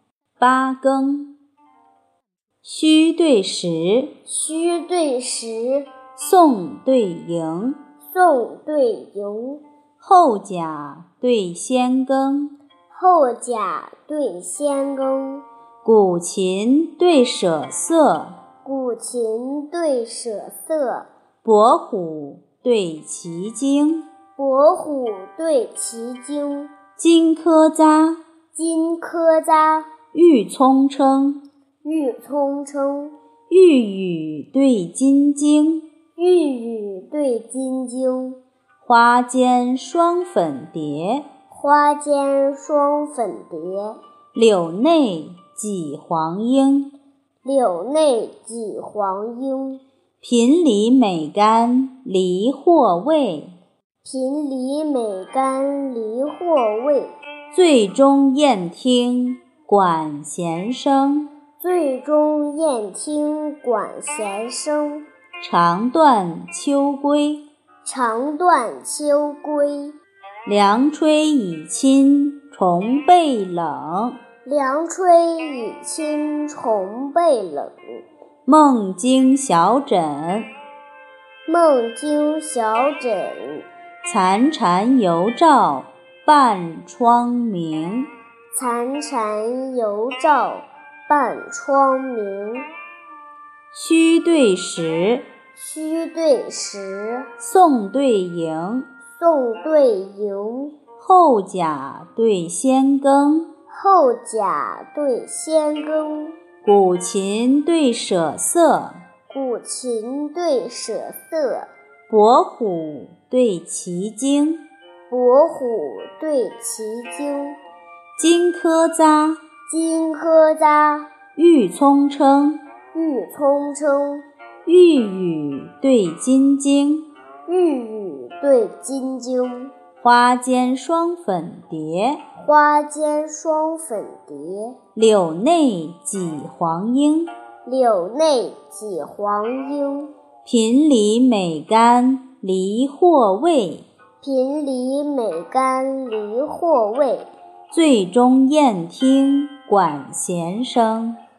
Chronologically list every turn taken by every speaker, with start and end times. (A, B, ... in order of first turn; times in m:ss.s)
0:00.4-0:01.3 A
0:02.6-0:04.1 A
0:04.3-0:05.9 B
0:06.2-0:07.8 A
0:08.0-0:09.6 B
0:10.0-0:12.6 A
0:12.9-0:15.4 B
0:15.8-0:18.4 A
0:18.6-0:21.1 B
0:21.4-0:24.1 A
0:24.4-0:26.7 B
0:27.0-0:28.2 A
0:28.6-0:29.9 B
0:30.1-0:31.4 A
0:31.8-0:33.2 B
0:33.5-0:35.9 A
0:36.2-0:38.4 B
0:38.8-0:41.3 A
0:41.5-0:44.0 B
0:44.3-0:46.9 A
0:47.4-0:49.8 B
0:50.2-0:53.6 A
0:54.0-0:57.2 B
0:57.5-1:01.3 A
1:01.6-1:05.0 B
1:05.4-1:07.4 A
1:07.8-1:10.0 B
1:10.5-1:14.2 A
1:14.4-1:18.0 B
1:18.5-1:20.5 A
1:21.5-1:23.7 B
1:24.0-1:28.1 A
1:28.5-1:32.7 B
1:33.7-1:35.3 A
1:35.6-1:37.3 B
1:37.4-1:38.9 A
1:39.2-1:40.7 B
1:41.0-1:43.5 A
1:43.7-1:46.4 B
1:46.6-1:49.0 A
1:49.3-1:51.7 B
1:52.1-1:54.6 A
1:55.1-1:57.6 B
1:58.2-1:59.4 A
1:59.7-2:01.1 B
2:01.4-2:02.6 A
2:02.9-2:04.2 B
2:04.7-2:07.1 A
2:07.5-2:09.7 B
2:10.0-2:12.2 A
2:12.4-2:14.8 B
2:15.0-2:17.3 A
2:17.6-2:20.1 B
2:20.5-2:23.9 A
2:24.2-2:27.3 B
2:27.7-2:31.2 A